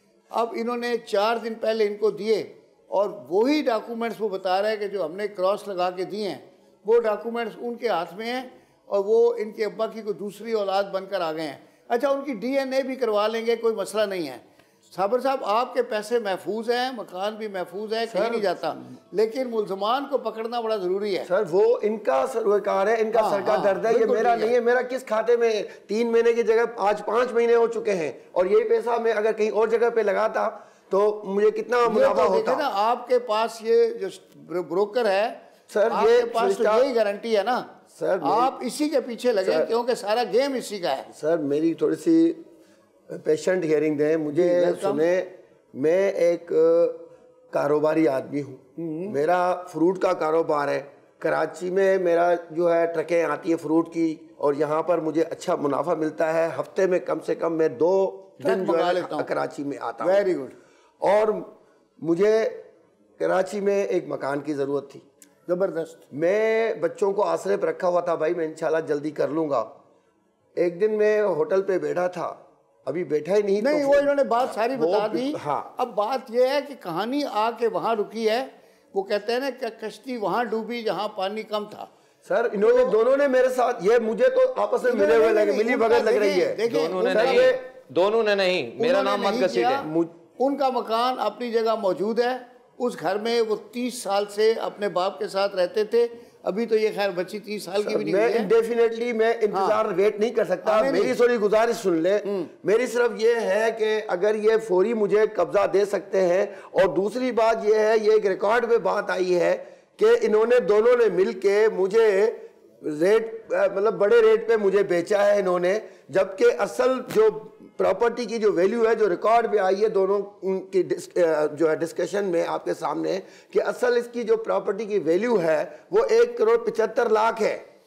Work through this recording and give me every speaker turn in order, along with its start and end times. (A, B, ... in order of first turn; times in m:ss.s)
0:00.3-0:21.3 A
0:18.1-0:18.4 B
0:21.2-0:32.6 B
0:23.1-0:24.5 A
0:31.8-0:37.7 A
0:35.7-0:36.8 B
0:37.9-0:38.5 B
0:38.2-0:41.1 A
0:39.4-0:39.7 B
0:41.1-0:42.4 B
0:43.1-1:00.2 B
0:44.3-0:45.0 A
0:48.8-0:49.2 A
0:58.4-0:59.3 A
1:00.0-1:00.6 A
1:01.0-1:02.6 B
1:03.2-1:05.0 B
1:05.5-1:06.0 A
1:06.1-1:09.7 B
1:10.6-1:14.1 B
1:13.6-1:21.9 A
1:14.7-1:15.7 B
1:22.2-1:27.6 B
1:22.6-1:23.0 A
1:24.8-1:27.6 A
1:26.6-1:29.8 C
1:28.8-1:38.5 A
1:29.8-1:30.1 B
1:37.8-2:07.6 B
1:39.5-1:39.8 A
1:40.6-1:41.2 A